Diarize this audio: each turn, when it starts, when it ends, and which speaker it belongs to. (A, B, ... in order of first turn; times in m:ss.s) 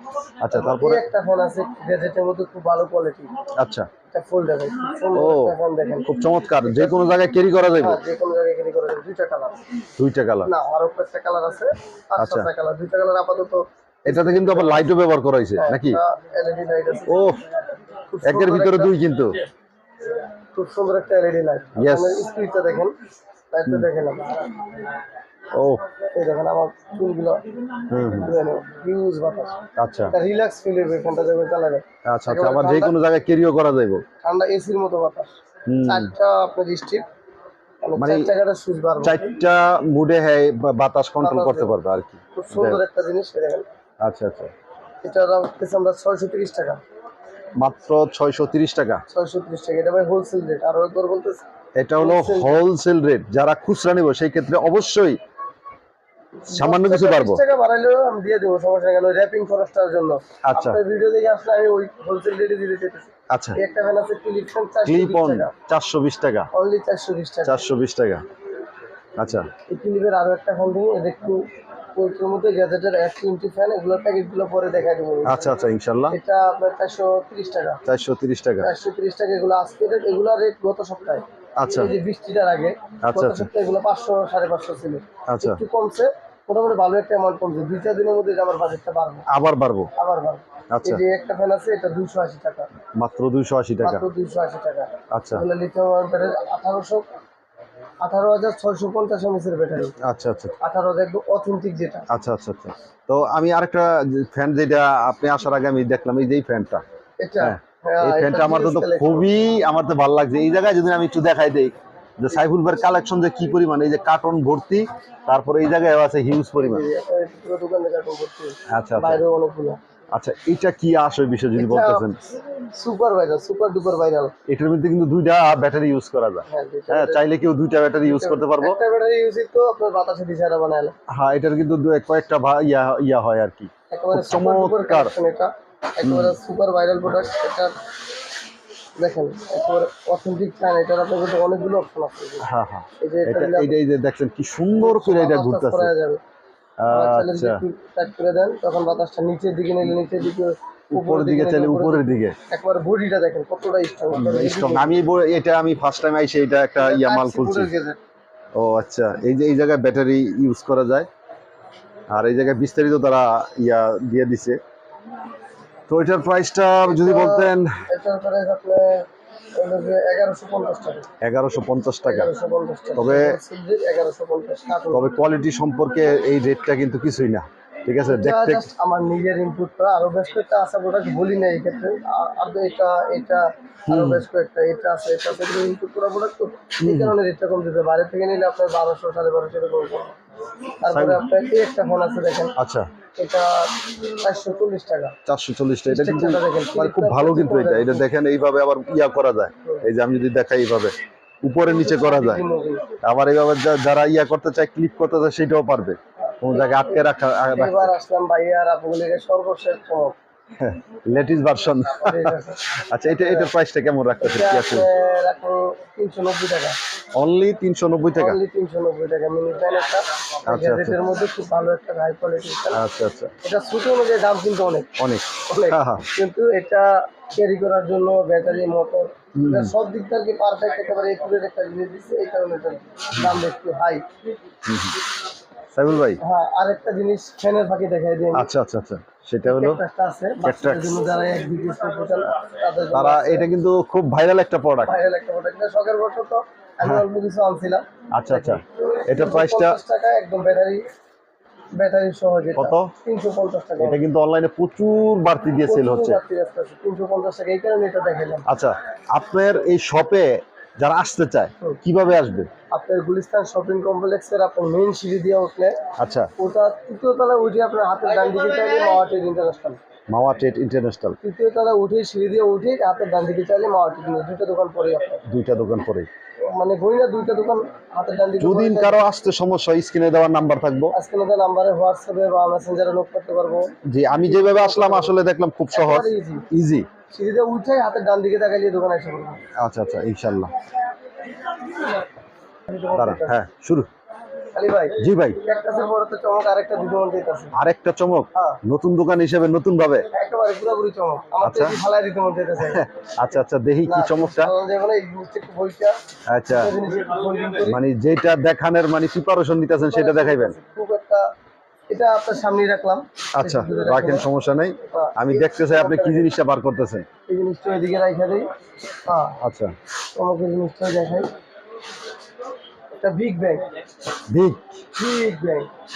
0:00.4-0:01.1 A
0:00.5-0:03.3 B
0:03.5-0:03.9 A
0:04.1-0:06.1 B
0:05.2-0:05.5 A
0:06.0-0:08.0 A
0:06.6-0:07.0 B
0:07.8-0:09.6 B
0:10.0-0:10.5 A
0:10.5-0:14.9 B
0:12.2-0:12.5 A
0:14.1-0:16.0 A
0:15.6-0:17.3 B
0:17.1-0:17.4 A
0:18.1-0:18.9 B
0:18.2-0:19.4 A
0:20.5-0:22.9 B
0:21.8-0:22.3 A
0:23.5-0:24.7 B
0:25.5-0:25.8 A
0:26.1-0:27.4 B
0:27.9-0:28.3 A
0:28.1-0:29.6 B
0:29.8-0:30.1 A
0:30.1-0:33.0 B
0:32.1-0:34.0 A
0:34.2-0:35.3 B
0:35.7-0:36.1 A
0:35.8-0:37.0 B
0:37.8-0:39.2 B
0:38.0-0:38.3 A
0:39.0-0:42.8 A
0:41.2-0:41.8 B
0:42.4-0:43.6 B
0:44.0-0:44.5 A
0:45.0-0:46.8 B
0:47.6-0:49.0 A
0:49.1-0:51.4 B
0:51.8-0:55.2 A
0:52.0-0:52.6 B
0:56.4-1:05.5 B
0:56.5-0:57.4 A
1:00.4-1:00.8 A
1:03.3-1:03.6 A
1:04.8-1:06.5 A
1:06.5-1:07.6 B
1:07.4-1:08.2 A
1:09.2-1:09.5 A
1:09.7-1:11.4 B
1:12.0-1:17.8 B
1:15.2-1:16.2 A
1:17.9-1:18.7 A
1:18.6-1:29.3 B
1:21.6-1:21.9 A
1:23.0-1:23.5 A
1:25.3-1:25.6 A
1:29.3-1:29.9 A
1:30.0-1:32.7 B
1:30.7-1:31.0 A
1:33.0-1:34.0 A
1:33.8-1:37.0 B
1:35.1-1:35.4 A
1:38.0-1:40.0 B
1:40.0-1:40.5 A
1:40.6-1:42.1 B
1:42.1-1:46.8 A
1:47.2-1:49.3 B
1:47.4-1:56.9 A
1:56.6-1:59.8 B
1:58.7-1:59.2 A
2:00.1-2:02.2 A
2:01.6-2:04.3 B
2:04.5-2:08.8 A
2:06.5-2:07.3 B
2:08.0-2:11.0 B
2:11.1-2:15.1 A
2:13.9-2:17.8 B
2:16.0-2:16.4 A
2:19.0-2:22.5 B
2:22.4-2:25.9 A
2:23.0-2:23.8 B
2:24.8-2:26.2 B
2:26.8-2:27.6 A
2:26.9-2:34.9 B
2:30.9-2:32.4 A
2:34.1-2:37.7 A
2:36.8-2:38.0 B
2:38.6-2:41.1 A
2:42.1-2:44.6 A
2:45.9-2:47.7 A
2:46.9-2:51.1 B
2:51.2-2:52.3 A
2:52.0-2:55.1 B
2:53.0-2:53.4 A
2:54.9-2:58.7 A
2:58.0-3:10.2 B
3:03.9-3:04.2 A
3:06.8-3:07.1 A
3:10.8-3:12.5 B
3:10.9-3:11.2 A
3:12.6-3:12.9 A
3:13.2-3:15.2 B
3:15.3-3:22.4 A
3:15.9-3:18.1 B
3:21.7-3:22.9 B
3:23.0-3:27.9 A
3:26.2-3:30.2 B
3:30.6-3:34.9 A
3:32.0-3:33.5 B
3:34.2-3:36.8 B
3:37.1-3:38.4 A
3:38.2-3:42.8 B
3:40.5-3:41.0 A
3:42.7-3:43.3 A
3:43.4-3:44.9 B
3:45.0-3:46.1 A
3:45.5-3:54.0 B
3:49.4-3:49.7 A
3:54.6-3:55.0 A
3:55.7-3:56.2 A
3:56.2-3:58.5 B
3:58.3-3:59.8 A
3:59.5-4:03.5 B
4:00.4-4:01.0 A
4:02.9-4:04.9 A
4:04.9-4:10.8 B
4:08.1-4:09.8 A
4:11.8-4:14.0 B
4:12.6-4:12.9 A
4:13.8-4:16.2 A
4:15.6-4:18.4 B
4:18.5-4:22.5 A
4:22.7-4:25.8 B
4:26.0-4:26.3 A
4:26.4-4:29.8 B
4:30.1-4:31.2 A
4:31.2-4:35.2 B
4:35.3-4:36.1 A
4:36.4-4:39.0 B
4:38.4-4:40.9 A
4:40.9-4:43.7 B
4:43.9-4:46.9 A
4:44.2-4:45.2 B
4:45.7-4:46.4 B
4:47.1-4:49.4 B
4:49.6-4:50.5 A
4:52.7-4:53.4 B
4:52.9-4:53.9 A
4:54.5-4:57.5 B
4:55.0-4:55.4 A
4:57.6-5:00.1 A
5:00.1-5:02.8 B
5:01.4-5:01.8 A
5:02.6-5:04.5 A
5:03.9-5:06.0 B
5:06.3-5:06.7 A
5:06.5-5:07.8 B
5:07.6-5:10.6 A
5:09.8-5:11.3 B
5:11.9-5:14.3 B
5:13.4-5:17.1 A
5:14.9-5:16.3 B
5:17.3-5:18.5 B
5:19.0-5:19.4 B
5:19.4-5:19.7 A
5:20.2-5:21.3 B
5:23.0-5:23.7 B
5:24.3-5:24.6 A
5:25.0-5:25.7 B